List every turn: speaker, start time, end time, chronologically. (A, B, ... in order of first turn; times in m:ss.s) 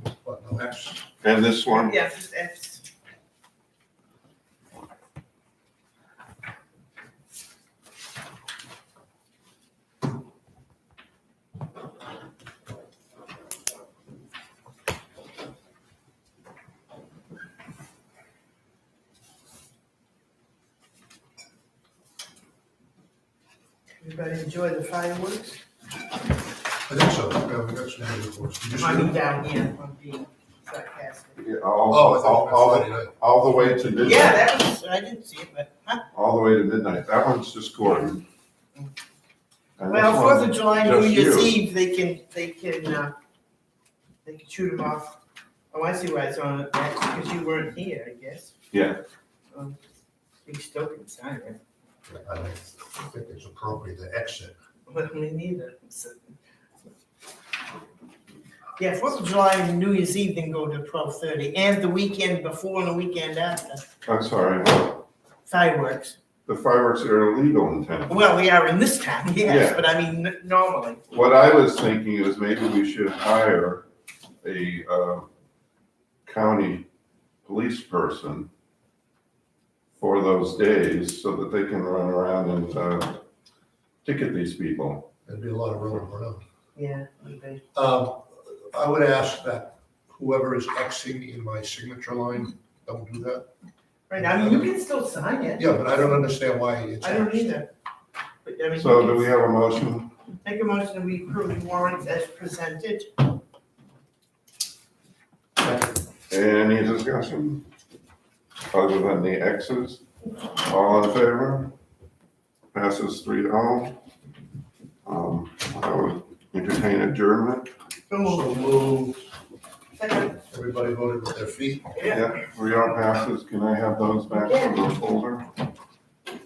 0:00.2-0:01.1 A
0:01.2-0:02.0 B
0:01.7-0:02.8 C
0:24.0-0:25.6 C
0:26.9-0:29.2 A
0:28.8-0:31.4 C
0:31.4-0:34.5 B
0:31.9-0:33.1 A
0:34.0-0:36.0 C
0:36.1-0:38.2 B
0:37.9-0:38.2 C
0:39.8-0:41.6 B
0:39.9-0:43.1 C
0:44.2-0:45.2 C
0:45.7-0:48.6 C
0:48.7-0:49.0 B
0:49.5-0:49.8 C
0:50.4-0:51.6 C
0:52.1-0:54.5 A
0:54.9-0:56.9 C
0:58.8-1:03.9 C
1:04.0-1:05.0 B
1:05.4-1:06.2 C
1:06.5-1:08.2 B
1:08.1-1:11.0 C
1:09.4-1:09.8 B
1:11.1-1:13.8 B
1:14.4-1:15.3 B
1:16.2-1:16.9 B
1:17.4-1:18.5 B
1:20.0-1:23.2 B
1:24.0-1:25.1 B
1:25.2-1:26.4 A
1:26.7-1:27.6 C
1:27.7-1:33.4 A
1:34.1-1:36.0 C
1:34.1-1:34.7 A
1:35.6-1:37.6 A
1:37.0-1:37.7 C
1:38.4-1:39.3 C
1:38.7-1:40.1 B
1:40.4-1:43.1 C
1:46.3-1:47.6 B
1:48.7-1:50.0 B
1:50.6-1:51.7 B
1:52.7-1:54.0 B
1:55.0-1:57.7 B
1:58.1-1:58.6 C
1:58.2-1:59.3 A
2:00.0-2:00.4 C
2:00.5-2:01.9 A
2:01.9-2:02.5 C
2:02.0-2:05.5 B
2:04.4-2:04.8 C